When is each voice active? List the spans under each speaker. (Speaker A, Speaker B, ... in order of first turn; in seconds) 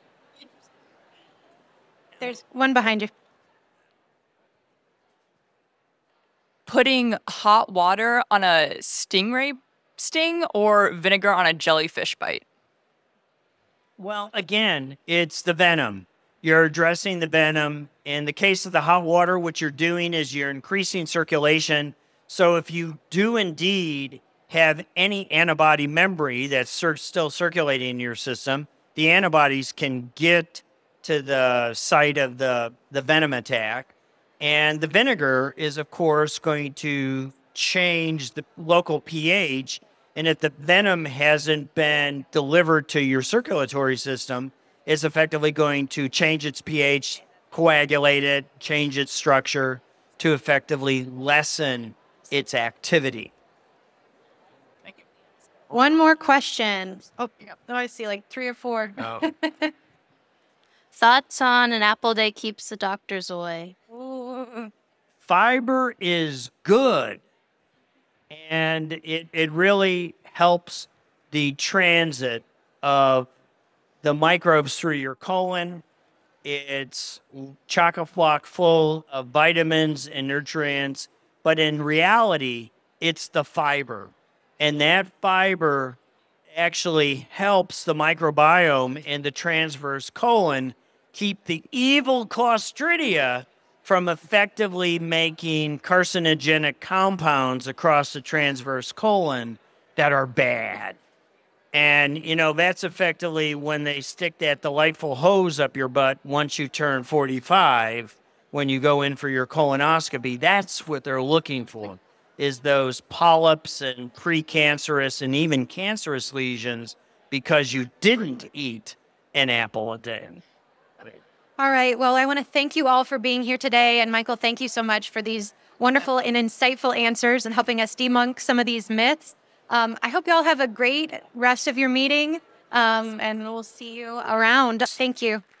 Speaker A: 2.2-3.1, 55.7-59.7, 63.9-64.7, 121.6-135.4
Speaker B: 6.7-12.4
Speaker C: 14.0-53.3, 65.2-67.2, 68.3-73.3, 74.0-75.8, 76.4-86.0, 86.5-101.0, 101.7-120.4
Speaker D: 60.9-63.8